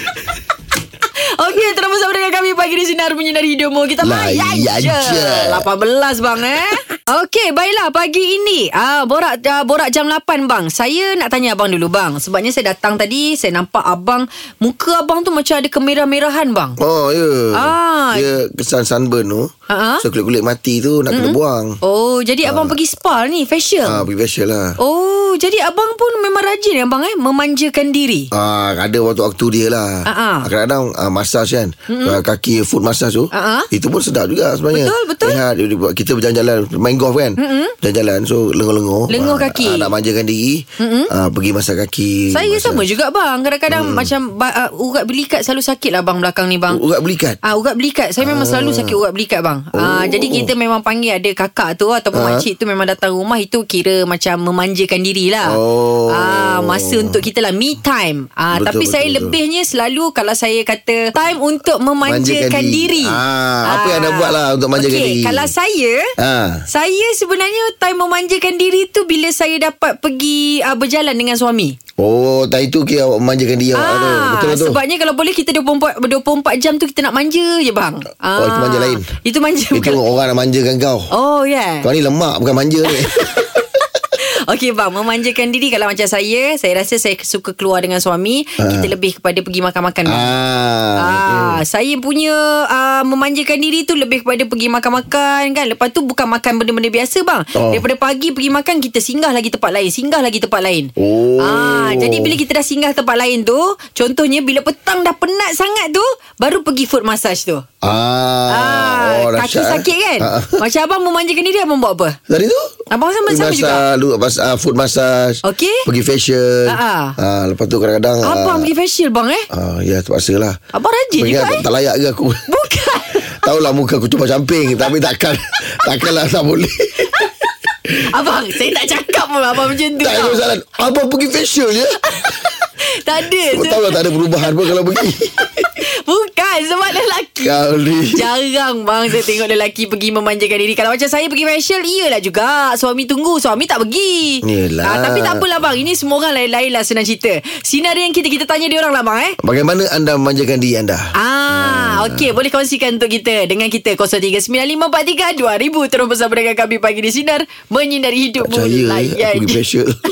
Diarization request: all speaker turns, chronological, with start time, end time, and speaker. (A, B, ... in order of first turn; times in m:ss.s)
0:01.2-0:16.8 A
0:04.0-0:05.6 B
0:16.8-0:19.5 B
0:17.5-0:18.3 A
0:19.7-0:20.1 A
0:20.0-0:21.8 B
0:21.1-0:24.0 A
0:22.4-0:22.8 B
0:23.8-0:24.8 B
0:24.8-0:28.3 A
0:28.3-0:42.9 B
0:30.1-0:30.5 A
0:31.9-0:32.2 A
0:33.3-0:33.7 A
0:34.7-0:35.4 A
0:37.4-0:37.7 A
0:39.1-0:39.9 A
0:40.8-0:41.1 A
0:42.3-0:46.8 A
0:43.7-0:44.1 B
0:46.7-0:47.4 B
0:47.4-0:55.6 A
0:48.2-0:49.0 B
0:49.7-0:50.5 B
0:52.1-0:52.5 B
0:55.4-0:57.2 B
0:56.1-1:06.1 A
0:58.5-0:59.4 B
1:02.0-1:05.5 B
1:06.2-1:06.7 B
1:06.7-1:11.8 A
1:12.0-1:14.8 B
1:13.7-1:20.0 A
1:18.4-1:19.1 B
1:19.7-1:21.1 B
1:21.1-1:21.9 A
1:21.8-1:23.6 B
1:22.9-1:30.3 A
1:28.6-1:28.9 B
1:30.1-1:31.6 B
1:31.0-1:47.6 A
1:37.6-1:37.8 B
1:41.0-1:42.4 B
1:47.8-1:50.6 B
1:48.5-1:52.2 A
1:52.3-1:52.7 B
1:52.9-1:53.8 A
1:53.3-1:58.7 B
1:55.4-1:55.9 A
1:56.7-1:57.2 A
1:58.2-1:59.5 A
1:59.5-2:00.6 B
2:00.7-2:01.6 A
2:01.2-2:02.5 B
2:02.5-2:03.5 A
2:03.4-2:07.2 B
2:07.9-2:10.4 A
2:10.0-2:12.0 B
2:12.0-2:14.5 A
2:13.5-2:15.7 B
2:15.5-2:29.4 A
2:17.4-2:18.2 B
2:24.4-2:25.4 B
2:29.4-2:32.3 B
2:31.2-2:39.6 A
2:38.4-2:39.9 B